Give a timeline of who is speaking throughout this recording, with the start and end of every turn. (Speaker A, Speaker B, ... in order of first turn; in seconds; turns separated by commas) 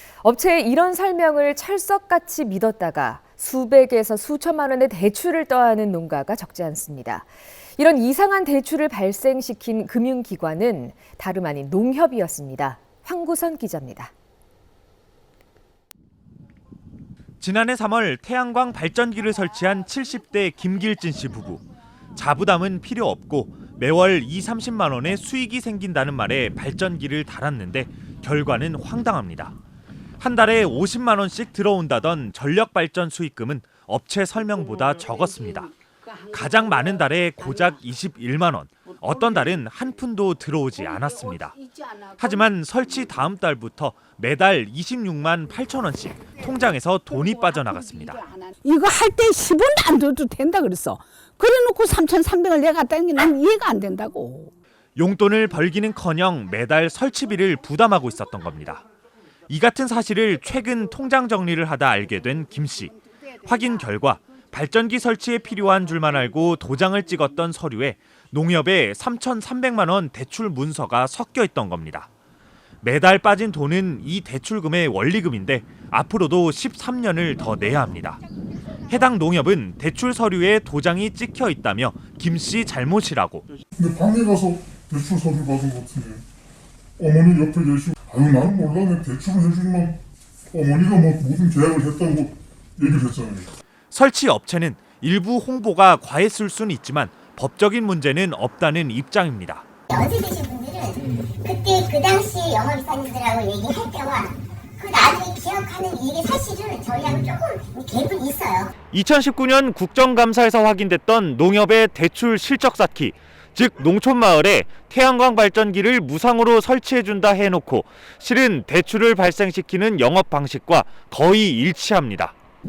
Speaker A: 0.2-14.1, Speaker B: 17.4-21.6, Speaker B: 22.1-29.5, Speaker B: 30.2-35.7, Speaker B: 36.3-41.6, Speaker C: 36.4-36.8, Speaker C: 41.0-42.5, Speaker B: 42.2-48.2, Speaker C: 47.3-54.5, Speaker B: 55.0-58.9, Speaker B: 59.5-72.1, Speaker B: 72.8-78.2, Speaker B: 78.9-83.5, Speaker D: 83.8-86.2, Speaker D: 87.0-90.0, Speaker D: 90.5-93.5, Speaker B: 93.9-99.7, Speaker E: 99.9-108.7, Speaker B: 108.9-122.3